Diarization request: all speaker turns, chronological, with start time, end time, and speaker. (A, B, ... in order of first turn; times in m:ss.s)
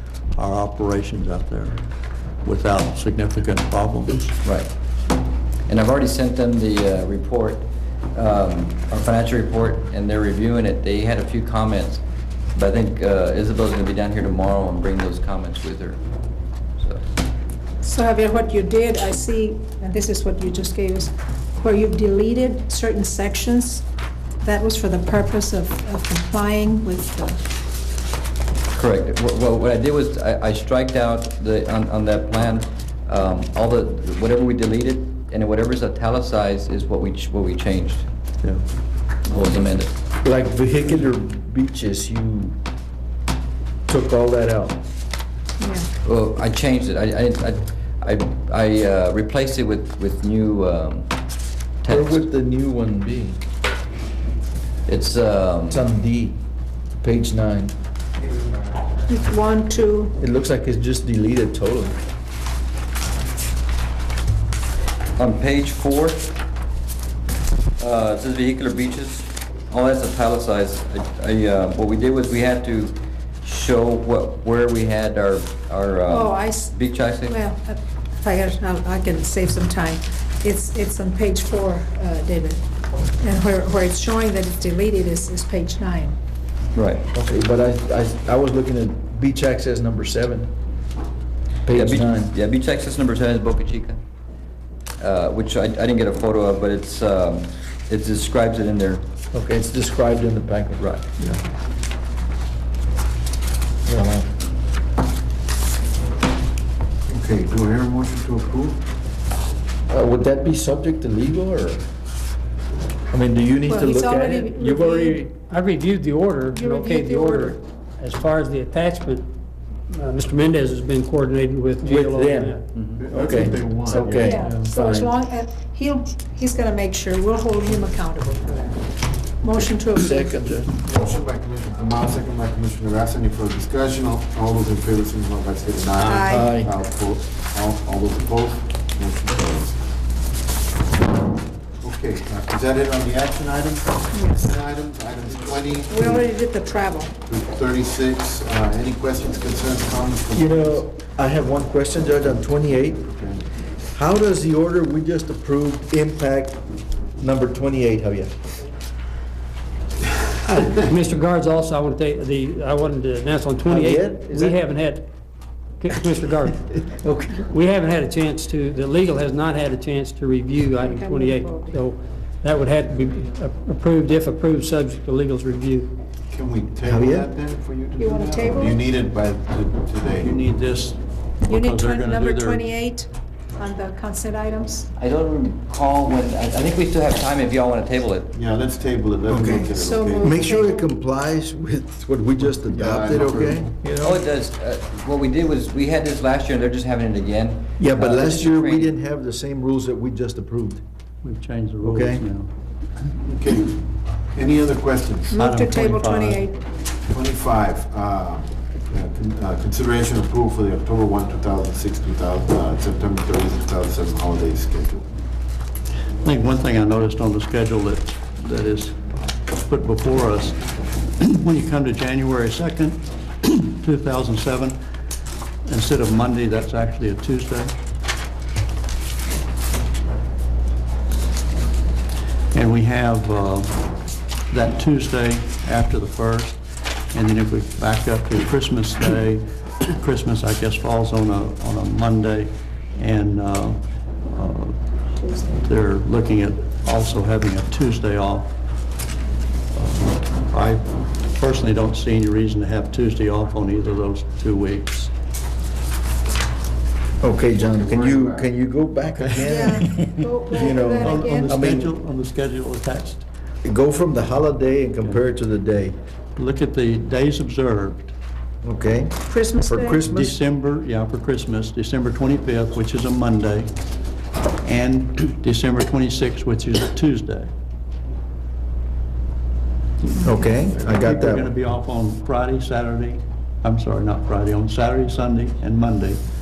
0:00.3-0:01.8 A
0:02.4-0:04.3 A
0:04.4-0:04.7 B
0:05.7-0:12.0 B
0:12.5-0:16.0 B
0:17.8-0:23.8 C
0:24.4-0:27.4 C
0:28.7-0:38.1 B
0:39.3-0:39.9 B
0:40.2-0:42.6 D
0:43.9-0:44.8 D
0:45.6-0:45.9 C
0:46.0-0:51.1 B
0:51.8-0:52.3 B
0:51.9-0:53.4 D
0:54.9-0:55.9 B
0:55.7-0:56.4 D
0:57.0-0:57.7 D
0:59.1-1:00.1 C
1:00.2-1:02.0 D
1:05.2-1:06.3 B
1:07.8-1:17.4 B
1:16.1-1:22.6 C
1:23.2-1:26.2 C
1:26.7-1:27.1 B
1:27.1-1:30.5 D
1:31.6-1:32.3 D
1:31.7-1:34.0 B
1:35.0-1:39.0 B
1:39.3-1:41.1 D
1:43.9-1:44.3 D
1:47.1-1:48.8 E
1:49.9-1:51.8 D
1:53.1-1:55.3 D
1:53.7-1:55.2 C
1:55.3-1:59.3 F
1:56.5-1:57.6 C
1:59.9-2:02.6 F
2:01.8-2:05.1 D
2:02.7-2:03.0 B
2:03.0-2:04.3 E
2:04.2-2:08.8 C
2:09.4-2:10.4 C
2:09.9-2:10.7 D
2:10.8-2:19.8 E
2:16.0-2:16.5 C
2:16.3-2:16.7 D
2:21.8-2:26.3 E
2:24.1-2:24.5 C
2:25.9-2:27.2 C
2:27.2-2:30.8 E
2:30.3-2:33.0 D
2:33.0-2:33.4 E
2:33.9-2:36.6 D
2:37.2-2:38.3 D
2:40.4-2:45.1 F
2:43.7-2:44.6 D
2:45.8-2:46.8 F
2:47.0-2:47.3 D
2:47.3-2:55.9 F
2:50.7-2:51.8 C
2:56.3-3:00.4 E
2:56.8-2:57.3 D
2:58.0-2:58.8 C
3:00.2-3:02.6 A
3:01.5-3:04.9 C
3:05.0-3:08.3 B
3:08.3-3:10.3 E
3:09.3-3:14.2 D
3:09.3-3:10.9 C
3:12.7-3:13.7 E
3:14.0-3:18.9 B
3:17.8-3:20.8 D
3:21.2-3:22.5 A
3:21.8-3:22.2 D
3:23.2-3:23.8 E
3:24.3-3:25.4 E
3:25.3-3:26.6 C
3:25.3-3:26.4 A
3:27.0-3:35.1 E
3:36.2-3:39.0 A
3:39.6-3:40.6 A
3:41.2-3:44.8 A
3:45.7-3:47.7 A
3:52.5-3:53.8 A
3:54.5-3:56.6 A
3:57.1-4:04.8 A
4:05.5-4:08.5 A
4:09.7-4:15.1 A
4:17.2-4:21.9 D
4:19.2-4:19.4 A
4:19.4-4:21.6 C
4:21.0-4:23.2 A
4:23.6-4:26.0 D
4:26.4-4:28.1 A
4:28.6-4:30.3 D
4:29.3-4:30.0 C
4:30.0-4:33.7 A
4:34.6-4:37.5 A
4:40.2-4:41.5 D
4:40.5-4:46.2 A